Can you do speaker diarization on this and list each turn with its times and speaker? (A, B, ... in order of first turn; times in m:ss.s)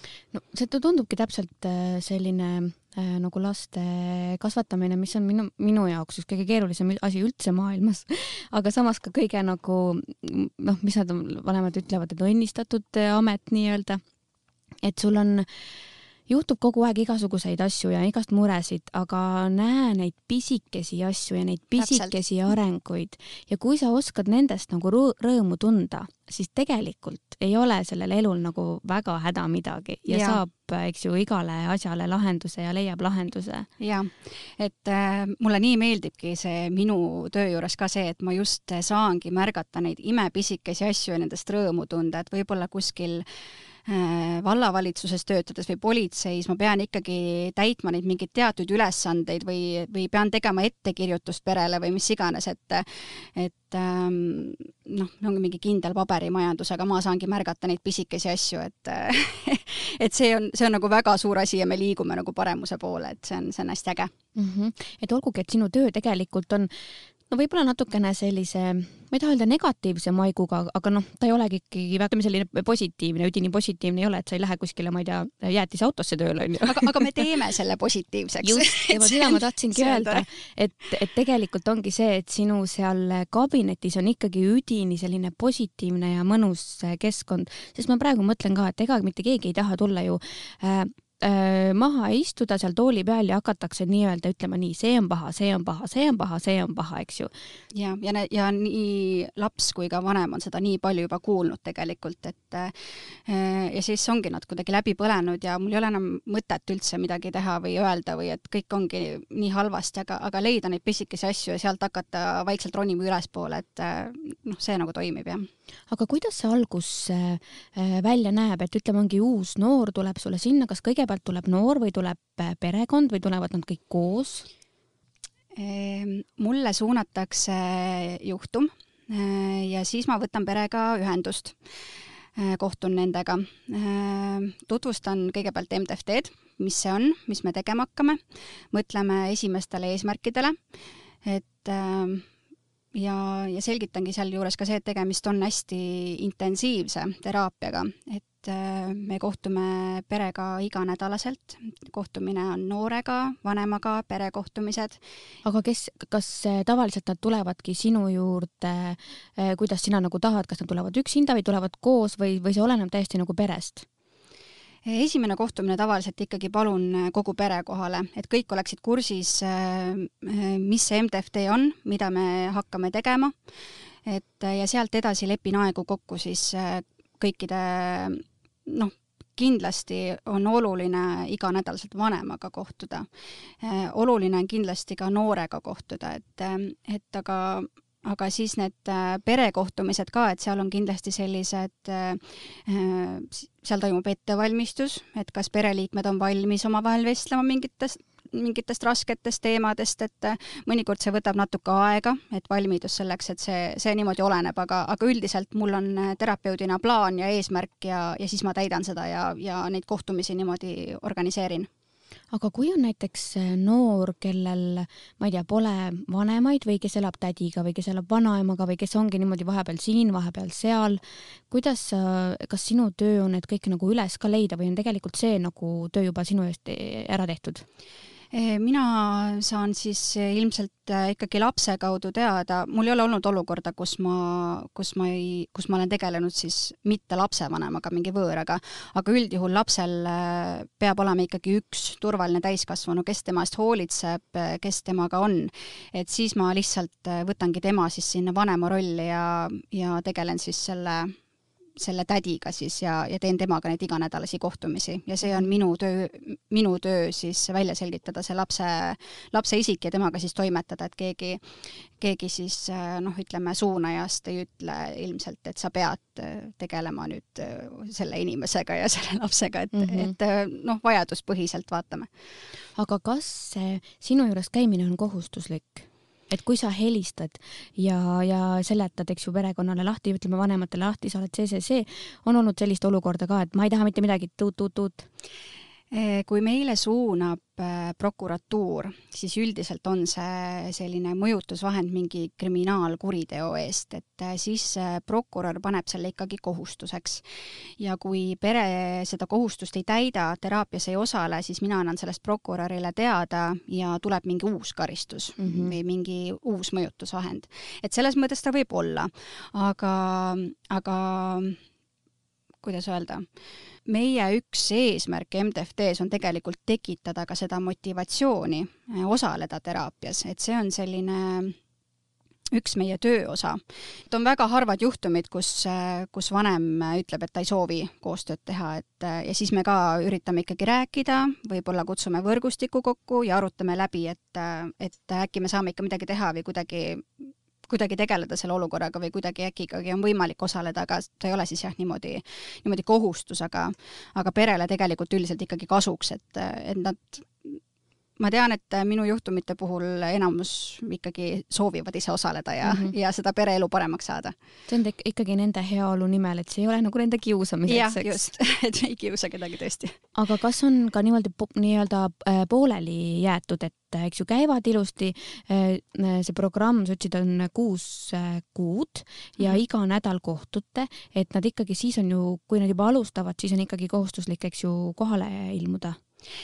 0:00.3-0:14.0 A
0:14.8-0:15.5 A
0:16.3-0:33.7 A
0:21.8-0:22.2 B
0:30.1-0:30.4 B
0:33.8-0:43.2 B
0:43.9-1:04.1 B
1:04.4-1:06.7 A
1:07.3-1:17.2 A
1:16.6-1:20.2 B
1:18.4-1:37.3 A
1:37.7-1:55.5 B
1:55.9-2:04.5 A
2:05.6-2:11.6 B
2:12.4-2:18.2 B
2:18.7-2:20.6 B
2:21.2-2:22.2 B
2:22.9-2:35.0 B
2:35.4-2:43.8 A
2:44.8-2:53.3 B
2:54.0-3:03.1 B
3:03.6-3:31.7 B
3:32.3-3:47.6 A
3:48.3-4:11.1 B
4:11.8-4:21.4 B
4:22.0-4:32.1 B
4:29.7-4:30.1 A
4:32.8-4:45.1 A
4:45.9-4:57.2 B
4:57.8-5:11.6 B
5:05.4-5:05.7 A
5:12.6-5:13.2 B
5:13.9-5:21.5 B
5:22.5-5:23.6 B
5:24.1-5:37.1 B
5:37.7-5:47.6 B
5:48.2-5:54.3 B
5:52.6-5:52.9 A
5:54.7-5:58.3 A
5:57.7-6:00.0 B
6:00.1-6:16.0 A